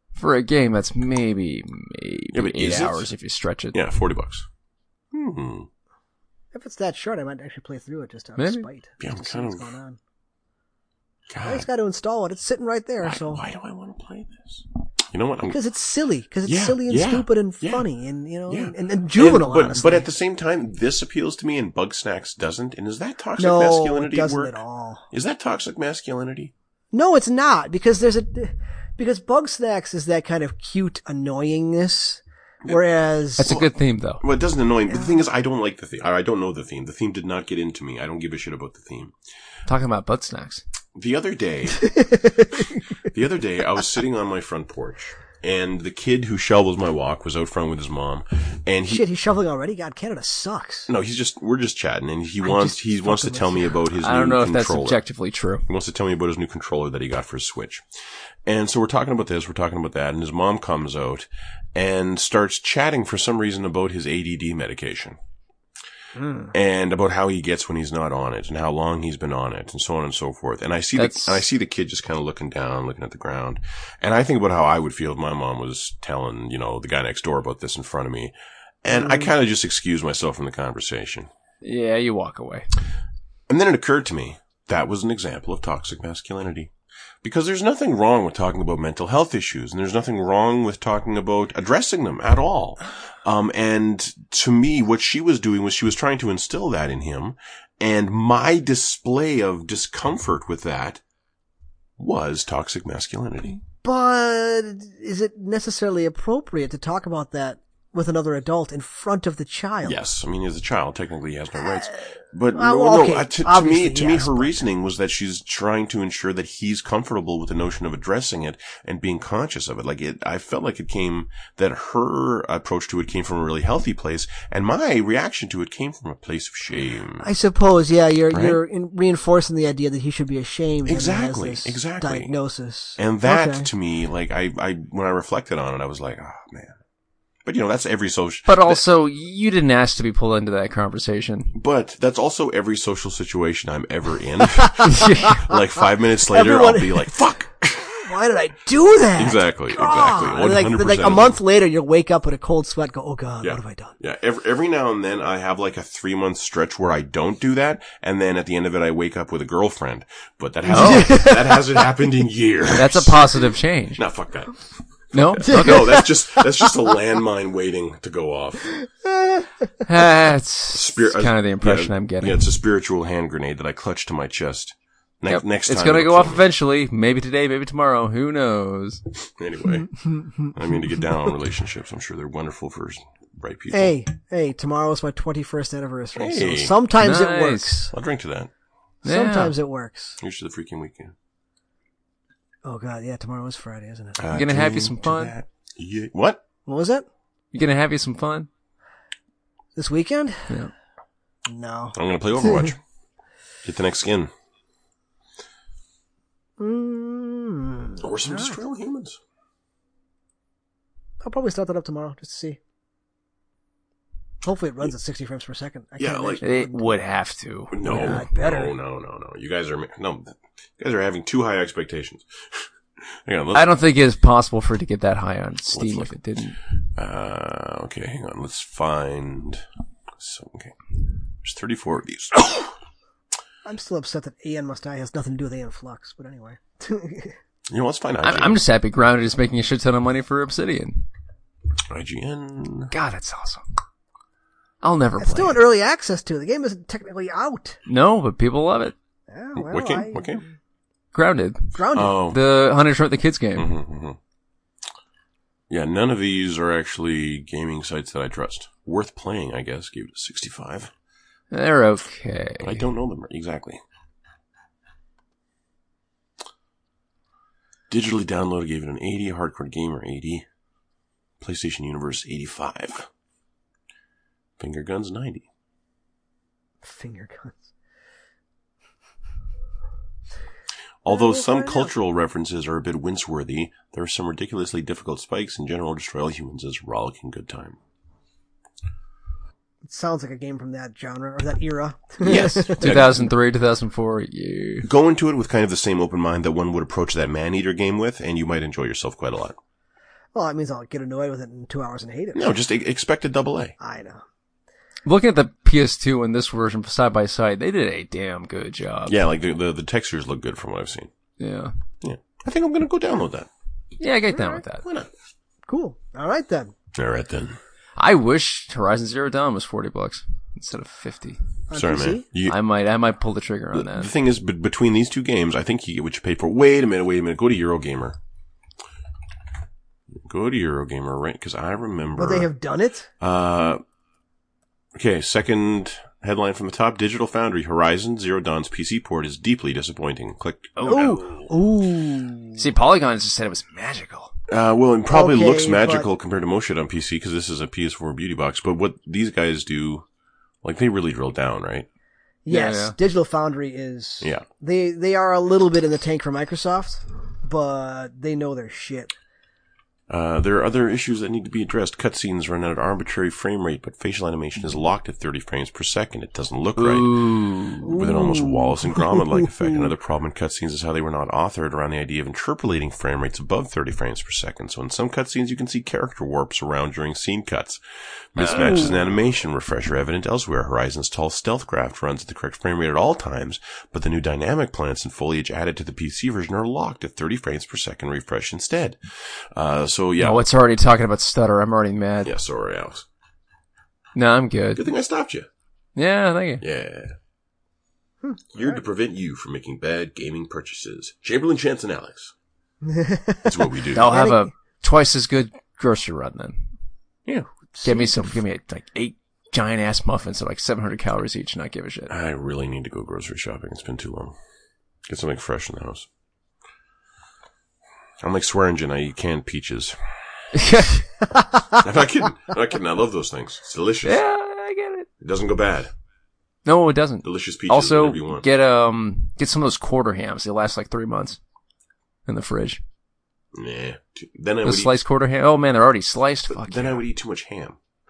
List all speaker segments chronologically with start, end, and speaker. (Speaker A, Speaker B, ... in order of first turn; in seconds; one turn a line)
Speaker A: 0.2-3.8
Speaker B: 2.3-3.1
Speaker B: 3.7-4.5
Speaker B: 5.1-5.7
Speaker C: 6.5-10.0
Speaker A: 8.4-8.6
Speaker B: 9.0-9.7
Speaker B: 11.3-11.7
Speaker C: 11.4-13.4
Speaker B: 13.0-15.6
Speaker C: 15.5-20.0
Speaker B: 16.4-17.9
Speaker B: 18.5-24.6
Speaker C: 23.4-25.1
Speaker B: 25.1-26.5
Speaker C: 26.9-33.5
Speaker A: 33.4-34.2
Speaker B: 33.4-33.7
Speaker B: 34.2-39.1
Speaker A: 39.7-40.6
Speaker B: 40.9-41.9
Speaker C: 41.8-42.8
Speaker B: 43.1-49.0
Speaker C: 48.9-50.9
Speaker B: 50.9-55.0
Speaker C: 52.4-53.7
Speaker A: 54.0-55.6
Speaker B: 55.7-57.8
Speaker B: 58.5-65.2
Speaker C: 66.2-66.5
Speaker B: 66.5-81.3
Speaker A: 71.0-71.4
Speaker C: 78.9-79.3
Speaker A: 81.6-82.7
Speaker B: 83.5-86.7
Speaker B: 87.2-101.0
Speaker B: 102.0-103.6
Speaker C: 103.8-110.0
Speaker B: 109.8-127.2
Speaker C: 112.5-114.6
Speaker C: 127.2-133.7
Speaker B: 128.3-128.6
Speaker B: 130.8-132.3
Speaker B: 133.0-136.8
Speaker B: 137.4-138.8
Speaker A: 138.5-141.5
Speaker B: 141.5-148.1
Speaker C: 144.5-145.6
Speaker A: 144.9-145.4
Speaker C: 146.3-147.3
Speaker C: 147.8-153.9
Speaker B: 149.2-151.4
Speaker B: 153.4-168.7
Speaker C: 160.7-161.7
Speaker A: 160.7-161.2
Speaker A: 162.7-164.0
Speaker A: 165.1-166.0
Speaker C: 165.4-166.9
Speaker C: 168.7-169.7
Speaker A: 169.8-172.4
Speaker B: 170.7-176.4
Speaker A: 175.3-179.0
Speaker B: 179.3-179.9
Speaker C: 180.0-180.5
Speaker B: 180.4-183.9
Speaker C: 183.7-187.9
Speaker B: 186.2-186.8
Speaker A: 187.0-187.8
Speaker B: 187.9-188.5
Speaker C: 189.0-190.2
Speaker A: 189.0-189.5
Speaker B: 190.2-191.1
Speaker C: 192.6-194.3
Speaker B: 194.2-196.4
Speaker A: 194.3-195.3
Speaker C: 196.7-197.1
Speaker A: 197.5-198.5
Speaker C: 199.8-200.6
Speaker C: 201.5-202.7
Speaker B: 201.9-202.8
Speaker B: 203.6-204.3
Speaker C: 206.6-208.6
Speaker B: 208.0-209.2
Speaker C: 211.2-212.6
Speaker C: 214.4-216.9
Speaker B: 216.0-216.4
Speaker A: 216.4-218.3
Speaker B: 217.7-223.7
Speaker C: 217.9-218.7
Speaker A: 223.5-226.6
Speaker B: 225.7-226.1
Speaker B: 226.9-229.6
Speaker B: 230.2-230.8
Speaker B: 231.4-232.7
Speaker C: 233.6-237.4
Speaker B: 237.7-238.6
Speaker A: 238.2-241.1
Speaker B: 241.9-242.9
Speaker A: 242.9-243.6
Speaker A: 244.8-245.6
Speaker C: 245.2-247.8
Speaker A: 247.9-248.9
Speaker C: 249.3-250.3
Speaker B: 249.6-250.4
Speaker A: 251.1-253.7
Speaker C: 251.7-252.1
Speaker B: 251.9-252.4
Speaker B: 253.6-254.2
Speaker B: 255.7-260.9
Speaker A: 261.5-262.8
Speaker B: 262.6-263.8
Speaker B: 267.9-270.4
Speaker B: 271.4-273.1
Speaker B: 274.6-275.4
Speaker C: 276.8-277.7
Speaker B: 281.0-287.8
Speaker C: 281.1-281.9
Speaker C: 289.8-293.1
Speaker B: 292.2-293.3
Speaker A: 292.6-294.9
Speaker B: 294.8-299.6
Speaker C: 300.3-302.5
Speaker B: 302.3-303.7
Speaker C: 303.8-304.2
Speaker A: 305.0-309.2
Speaker B: 309.1-311.1
Speaker A: 311.4-311.7
Speaker B: 312.0-313.5
Speaker A: 314.0-314.8
Speaker C: 314.3-314.6
Speaker B: 314.8-315.1
Speaker C: 315.7-316.7
Speaker B: 316.9-317.6
Speaker A: 318.0-321.4
Speaker C: 321.7-322.2
Speaker B: 321.7-322.6
Speaker A: 322.5-324.1
Speaker B: 323.7-328.2
Speaker B: 330.1-332.5
Speaker C: 332.1-333.1
Speaker B: 333.2-333.8
Speaker B: 334.9-341.2
Speaker A: 340.8-341.2
Speaker C: 340.8-342.6
Speaker A: 342.6-344.3
Speaker B: 344.5-350.1
Speaker C: 345.1-346.1
Speaker B: 350.6-351.9
Speaker C: 352.4-359.1
Speaker A: 352.5-352.9
Speaker B: 360.1-367.2
Speaker A: 366.8-368.0
Speaker C: 367.8-369.8
Speaker B: 367.9-377.8
Speaker B: 378.3-390.4
Speaker A: 378.4-378.9
Speaker A: 390.2-392.3
Speaker B: 392.2-393.1
Speaker A: 394.1-394.9
Speaker B: 394.7-395.5
Speaker A: 395.9-396.6
Speaker B: 396.6-397.1
Speaker C: 398.2-398.8
Speaker B: 398.5-402.3
Speaker C: 402.8-404.5
Speaker B: 403.4-404.2
Speaker A: 403.9-406.6
Speaker C: 407.8-408.4
Speaker A: 407.8-412.1
Speaker B: 412.1-414.3
Speaker B: 415.1-416.1
Speaker B: 418.2-420.4
Speaker A: 420.5-421.1
Speaker C: 421.2-421.8
Speaker B: 421.7-424.2
Speaker A: 424.0-425.1
Speaker B: 425.2-425.9
Speaker A: 426.6-431.4
Speaker B: 427.2-428.4
Speaker A: 432.2-432.8
Speaker B: 433.5-434.9
Speaker A: 434.6-437.0
Speaker B: 436.5-437.8